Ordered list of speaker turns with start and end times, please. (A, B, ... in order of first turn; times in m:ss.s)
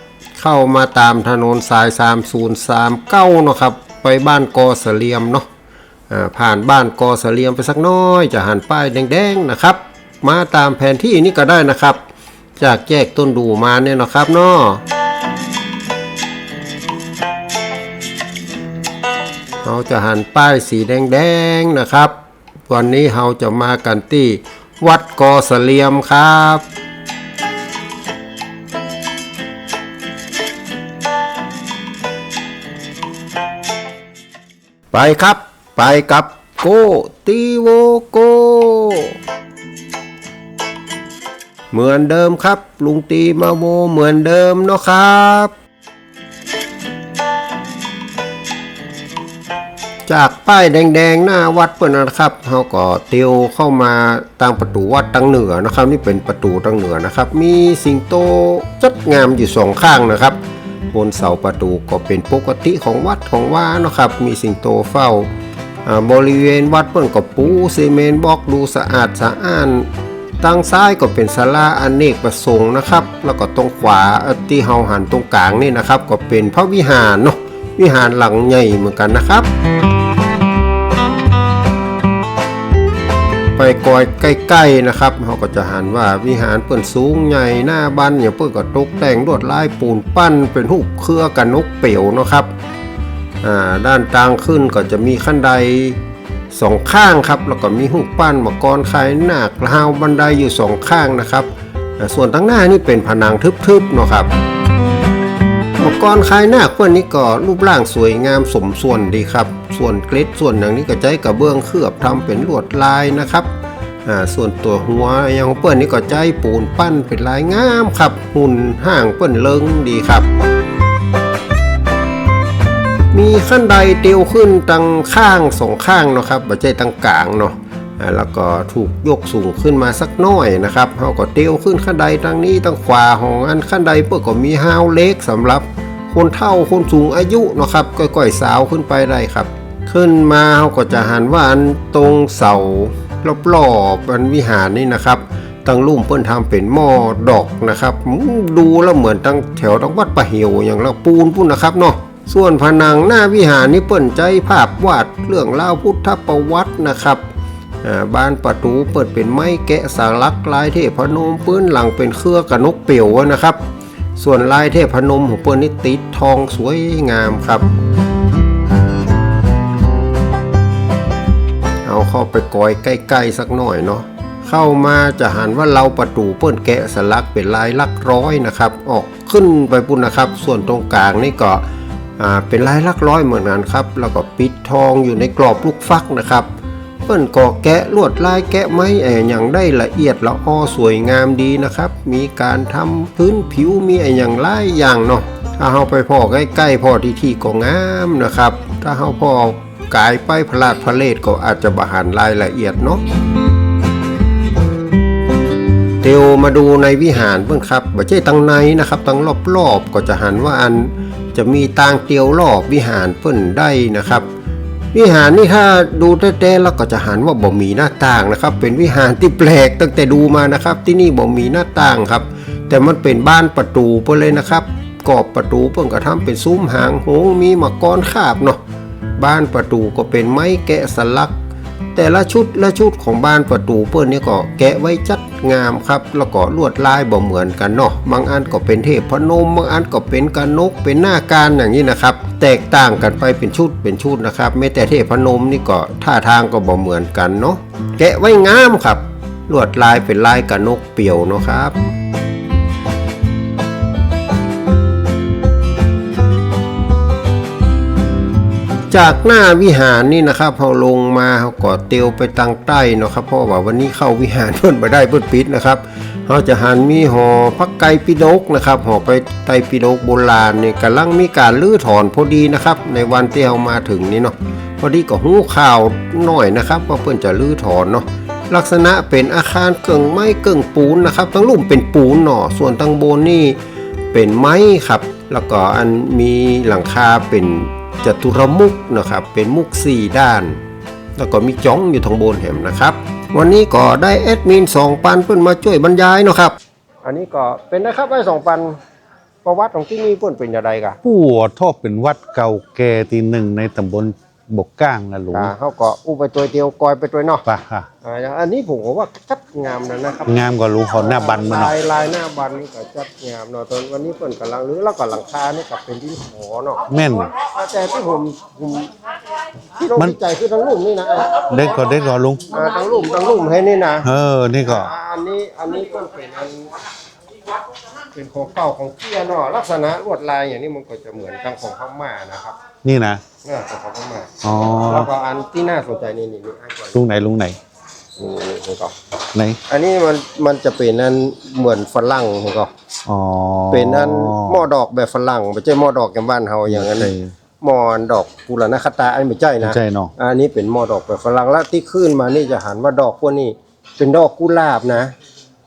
0:00.4-0:05.5 A
0:06.1-0:12.0 A
0:12.6-0:14.8 A
0:19.6-0:22.1 A
0:22.7-0:26.6 A
0:34.9-0:39.1 A
0:41.7-0:45.5 A
0:50.1-1:00.4 A
1:00.9-1:05.3 A
1:05.8-1:09.9 A
1:10.4-1:19.5 A
1:23.6-1:32.5 A
1:33.4-1:36.0 A
1:36.5-1:41.5 A
1:42.0-1:44.3 A
1:45.8-1:53.5 A
1:54.0-2:00.3 A
2:03.1-2:37.2 A
2:37.8-2:43.6 A
2:44.2-2:47.6 A
2:51.8-3:01.6 A
3:02.2-3:06.5 A
3:07.0-3:23.0 A
3:26.0-3:34.3 A
3:34.9-3:48.6 A
3:49.2-3:51.3 A
3:51.9-4:11.8 A
4:18.9-4:43.6 A
4:44.1-4:50.6 A
4:51.2-4:56.6 A
4:57.0-4:58.8 B
4:59.4-5:01.0 B
5:01.0-5:05.5 C
5:05.3-5:07.4 B
5:07.4-5:07.9 C
5:08.0-5:18.9 B
5:10.3-5:11.7 C
5:16.9-5:17.3 C
5:19.8-5:21.7 B
5:21.5-5:22.5 C
5:22.5-5:24.0 B
5:24.0-5:24.9 C
5:24.6-5:26.7 B
5:28.1-5:32.6 B
5:32.8-5:33.2 C
5:33.4-5:34.3 B
5:34.4-5:35.1 C
5:34.8-5:36.9 B
5:36.9-5:37.6 C
5:38.2-5:38.9 B
5:39.3-5:39.6 C
5:39.7-5:42.7 B
5:43.1-5:44.6 C
5:43.7-5:47.0 B
5:46.7-5:47.1 A
5:46.7-5:47.3 C
5:47.6-5:55.1 B
5:49.6-5:50.1 C